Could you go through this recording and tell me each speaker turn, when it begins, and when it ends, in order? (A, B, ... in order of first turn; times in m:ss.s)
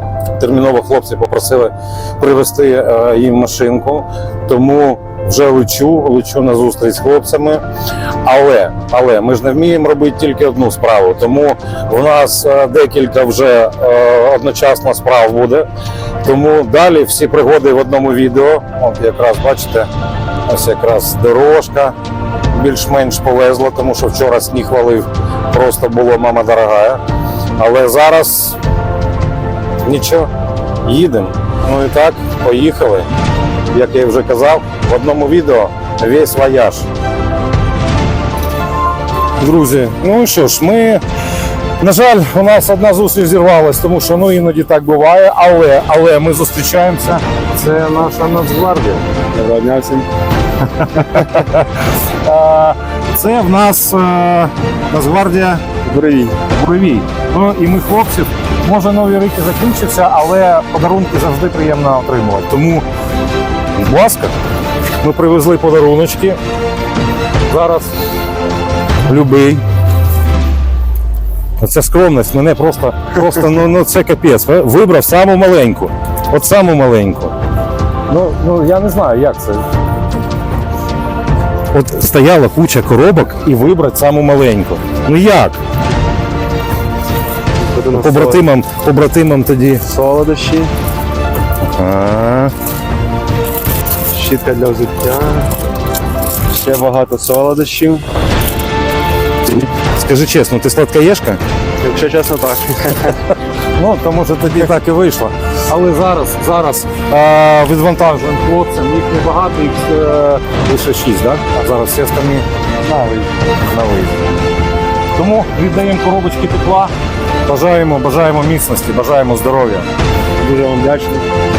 0:00.4-0:07.6 A
0:08.2-0:15.7 A
0:16.2-0:19.9 A
0:20.4-0:21.9 A
0:22.5-0:27.0 A
0:27.6-0:28.6 A
0:29.8-0:30.3 A
0:30.8-0:33.1 A
0:33.7-0:36.9 A
0:39.4-0:41.0 A
0:41.8-0:49.0 A
0:49.3-0:50.0 B
0:50.8-0:55.7 A
0:55.8-0:56.4 B
0:56.5-1:02.8 A
1:03.8-1:04.3 A
1:05.0-1:06.4 A
1:07.5-1:07.9 A
1:09.1-1:09.6 A
1:11.6-1:17.3 A
1:18.1-1:19.7 A
1:21.7-1:25.6 A
1:27.6-1:28.4 B
1:27.9-1:29.8 A
1:29.8-1:30.7 B
1:31.6-1:32.5 A
1:34.1-1:35.5 B
1:36.5-1:38.0 B
1:39.5-1:41.4 A
1:41.8-1:43.2 B
1:43.7-1:52.4 A
1:52.8-1:53.3 B
1:53.7-1:54.2 A
1:55.1-1:56.9 A
1:57.4-1:59.9 A
2:00.4-2:01.2 B